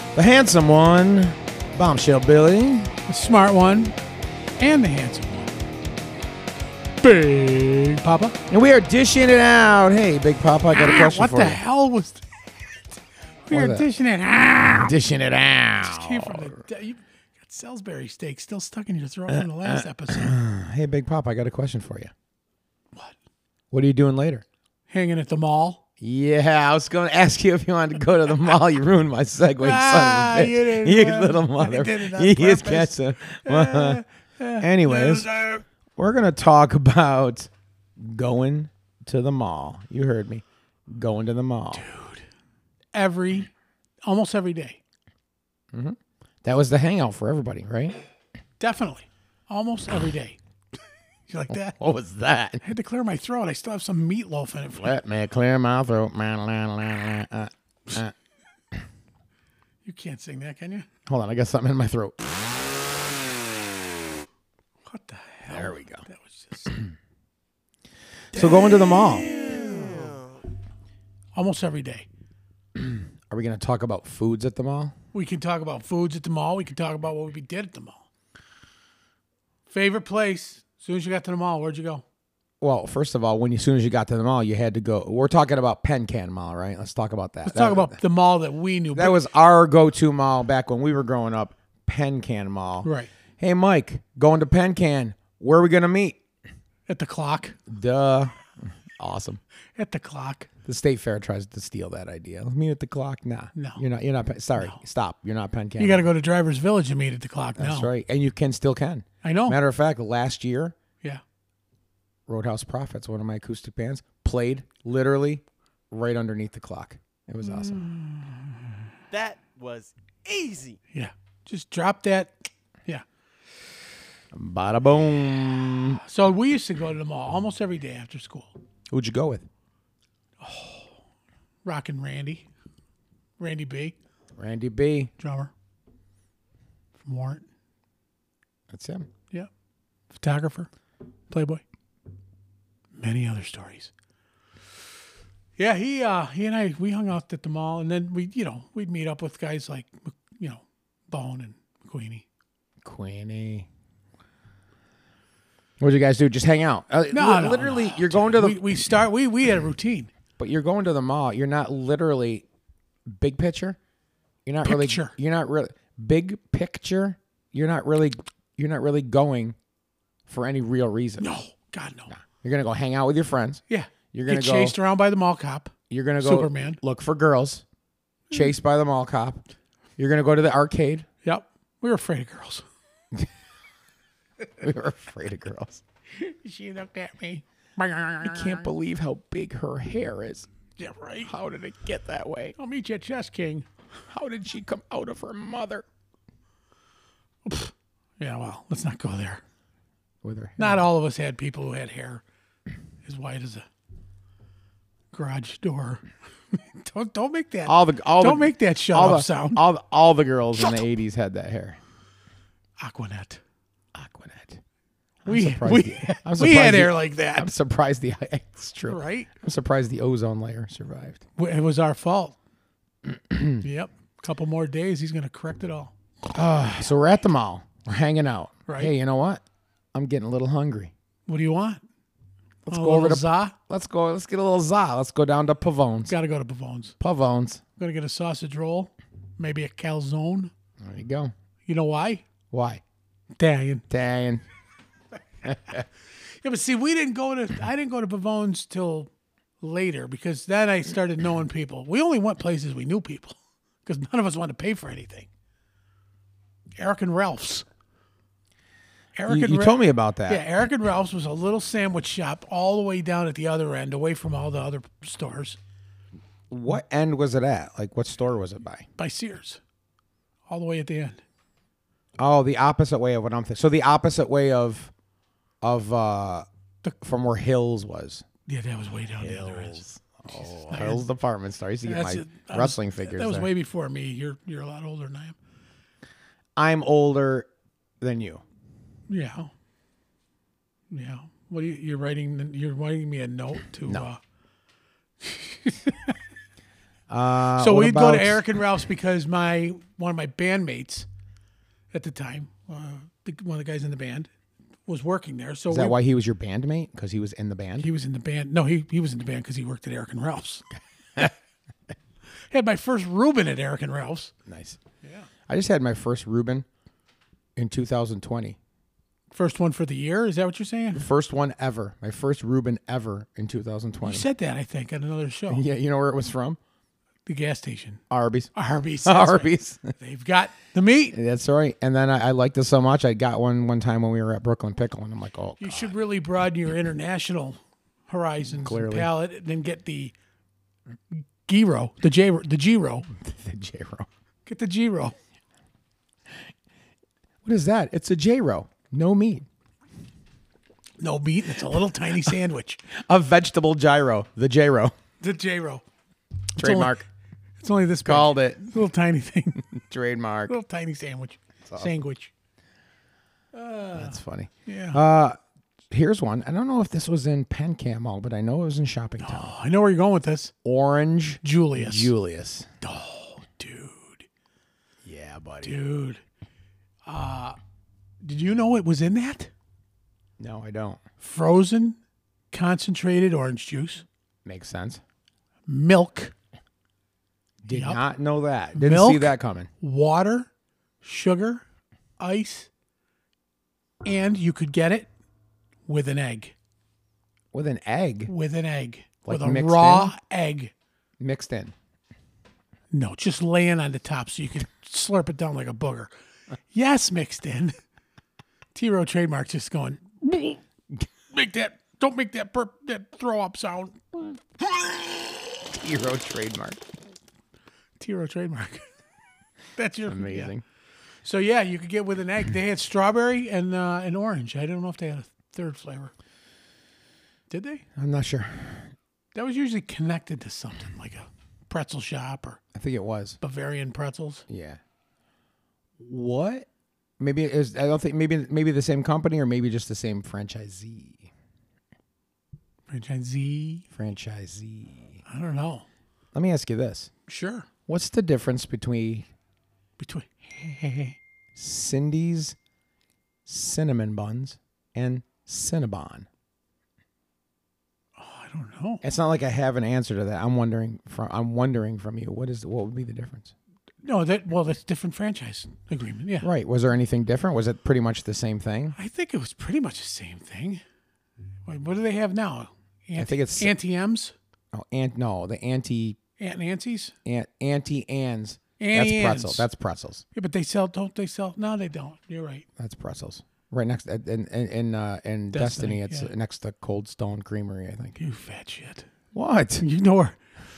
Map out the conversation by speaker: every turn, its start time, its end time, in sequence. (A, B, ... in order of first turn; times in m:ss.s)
0:00.2-0:02.9 A
0:03.1-0:04.0 B
0:04.6-0:05.6 B
0:07.0-0:08.4 B
0:08.5-0:11.6 A
0:10.7-0:12.3 B
0:13.5-0:14.9 B
0:13.5-0:13.9 A
0:14.8-0:16.5 A
0:15.8-0:20.3 B
0:19.4-0:22.1 A
0:23.7-0:24.4 A
0:24.9-0:25.8 B
0:26.0-0:34.0 A
0:29.6-0:35.6 B
0:34.6-0:35.3 A
0:36.0-0:41.9 A
0:41.7-0:42.2 B
0:42.9-0:43.5 B
0:44.0-0:44.8 B
0:45.7-0:48.0 A
0:48.6-0:50.4 B
0:51.3-0:51.8 B
0:51.7-0:52.6 A
0:52.6-0:55.0 B
0:54.8-0:58.1 A
0:59.8-1:00.9 B
1:01.1-1:02.6 A
1:04.8-1:06.8 B
1:05.5-1:06.0 A
1:08.3-1:09.3 A
1:08.3-1:10.2 B
1:09.3-1:10.4 C
1:11.4-1:12.1 B
1:12.8-1:14.9 A
1:15.1-1:18.1 B
1:19.7-1:22.0 B
1:22.6-1:28.0 A
1:27.4-1:29.2 B
1:28.9-1:36.2 A
1:32.8-1:33.1 B
1:36.9-1:37.6 B
1:37.7-1:39.4 A
1:39.8-1:40.5 B
1:40.6-1:46.0 A
1:43.6-1:43.8 B
1:45.8-1:47.9 B
1:47.6-1:50.8 A
1:49.2-1:49.6 B
1:52.3-1:57.9 A
1:57.6-1:58.5 B
1:59.1-2:00.8 C
2:00.9-2:03.0 B
2:04.3-2:06.0 A
2:06.0-2:08.6 B
2:08.9-2:09.5 A
2:10.4-2:11.0 B
2:11.6-2:12.5 B
2:13.4-2:14.0 B
2:14.4-2:15.1 A
2:15.2-2:15.5 B
2:17.0-2:17.4 B
2:18.7-2:19.1 A
2:20.1-2:20.7 B
2:21.3-2:21.6 B
2:23.0-2:23.9 B
2:25.6-2:32.2 B
2:32.8-2:33.7 A
2:35.8-2:38.6 A
2:37.1-2:40.1 B
2:40.4-2:42.5 A
2:43.1-2:43.8 A
2:44.5-2:49.6 A
2:44.6-2:45.1 B
2:50.3-2:51.3 A
2:51.2-2:52.1 B
2:52.1-2:53.6 A
2:53.7-2:56.8 B
2:54.1-2:54.8 A
2:55.9-2:57.6 A
2:58.3-2:59.4 A
3:00.0-3:01.1 A
3:01.2-3:02.6 B
3:04.6-3:05.8 A
3:06.1-3:08.7 B
3:08.2-3:10.5 A
3:10.8-3:11.3 B
3:11.2-3:12.6 A
3:12.6-3:13.7 B
3:14.1-3:15.9 A
3:17.4-3:19.4 B
3:20.2-3:20.9 A
3:20.6-3:22.2 B
3:23.0-3:23.7 B
3:25.1-3:29.6 B
3:27.7-3:31.8 A
3:32.8-3:33.4 B
3:34.0-3:34.6 A
3:35.2-3:41.2 A
3:35.3-3:37.5 B
3:38.9-3:39.3 B
3:41.4-3:42.4 B
3:43.1-3:43.6 A
3:43.6-3:45.9 B
3:46.3-3:49.4 A
3:48.7-3:48.9 B
3:49.9-3:50.9 A
3:51.3-3:51.8 B
3:52.7-3:56.1 A
3:52.7-3:53.6 B
3:56.1-3:57.0 B
3:57.0-3:57.6 A
3:57.8-4:00.5 B
4:00.8-4:01.3 A
4:01.7-4:02.2 B
4:02.5-4:02.8 A
4:03.4-4:03.8 B
4:03.9-4:04.4 A
4:05.4-4:05.8 A
4:06.4-4:09.1 B
4:09.6-4:15.3 B
4:16.8-4:17.7 B
4:19.2-4:25.6 B
4:19.3-4:20.4 A
4:26.5-4:28.9 A
4:29.0-4:29.6 B
4:30.5-4:31.2 B
4:32.2-4:34.9 A
4:35.6-4:36.5 A
4:37.0-4:38.2 A
4:38.5-4:41.0 B
4:39.1-4:43.5 A
4:41.8-4:45.4 B
4:46.6-4:47.5 A
4:48.0-4:48.4 A
4:49.1-4:49.5 B
4:50.9-4:54.2 B
4:55.2-4:56.2 B
4:57.1-4:58.5 A
4:57.6-5:01.1 B
5:01.9-5:04.3 B
5:04.9-5:06.0 B
5:05.7-5:07.9 A
5:07.8-5:10.7 B
5:12.5-5:14.3 B
5:14.5-5:14.8 A
5:15.5-5:16.7 A
5:17.6-5:18.6 A
5:19.3-5:21.1 B
5:20.9-5:24.3 A
5:24.0-5:25.6 B
5:25.5-5:26.6 A
5:27.3-5:28.0 B
5:28.1-5:28.5 A
5:28.6-5:31.2 B
5:29.0-5:29.9 A
5:31.1-5:35.9 A
5:35.6-5:40.1 B
5:38.5-5:39.1 A
5:41.1-5:43.1 B
5:43.2-5:44.1 A
5:44.5-5:45.2 B
5:47.4-5:49.5 A
5:51.0-5:52.8 B
5:52.9-5:54.9 A
5:55.2-5:55.8 B
5:56.6-5:57.0 B
5:56.6-5:57.0 A
5:57.6-5:59.7 B
5:58.0-5:58.7 A
5:59.7-6:00.5 A
6:00.5-6:02.3 B
6:01.6-6:01.9 A
6:03.5-6:05.0 B
6:03.9-6:05.4 A
6:05.9-6:09.5 A
6:09.2-6:10.5 B
6:10.6-6:12.7 A
6:11.4-6:12.1 B
6:12.8-6:14.3 B
6:15.0-6:15.8 A
6:15.6-6:16.2 B
6:17.1-6:17.6 B
6:18.2-6:19.5 B
6:20.4-6:21.0 A
6:21.2-6:22.0 B
6:22.5-6:24.0 B
6:24.4-6:25.0 A
6:25.7-6:26.3 B
6:27.6-6:29.7 A
6:27.7-6:28.0 B
6:28.7-6:30.5 B
6:31.0-6:31.6 B
6:32.2-6:32.7 B
6:34.0-6:35.1 B
6:35.9-6:36.6 B
6:37.5-6:38.3 A
6:38.3-6:40.7 B
6:39.2-6:40.2 A
6:41.2-6:41.7 A
6:42.9-6:46.1 B
6:46.7-6:47.8 B
6:48.7-6:50.6 B
6:51.3-6:54.2 B
6:55.5-6:56.8 A
6:58.0-6:58.9 B
6:59.8-7:00.5 B
7:00.1-7:00.6 A
7:01.2-7:06.1 B
7:07.5-7:07.8 B
7:08.0-7:08.9 A
7:09.4-7:12.6 B
7:12.7-7:13.4 A
7:13.4-7:14.4 B
7:14.5-7:14.8 A
7:16.0-7:16.7 A
7:17.2-7:21.3 A
7:22.9-7:23.8 B
7:23.9-7:25.2 A
7:25.3-7:25.9 B
7:26.3-7:27.1 A
7:27.3-7:27.7 B
7:27.9-7:29.3 A
7:30.0-7:31.2 B
7:31.6-7:32.6 A
7:33.5-7:36.3 A
7:38.2-7:39.0 B
7:39.0-7:43.5 A
7:44.0-7:46.5 B
7:46.4-7:49.0 A
7:49.0-7:50.8 B
7:51.7-7:54.3 B
7:53.2-7:53.7 A
7:54.7-7:56.2 A
7:56.4-7:57.1 B
7:57.2-8:00.2 A
7:58.8-7:59.7 B
8:00.4-8:02.7 B
8:02.8-8:08.2 A
8:05.5-8:06.3 B
8:08.2-8:09.1 B
8:09.3-8:09.8 A
8:09.8-8:10.4 B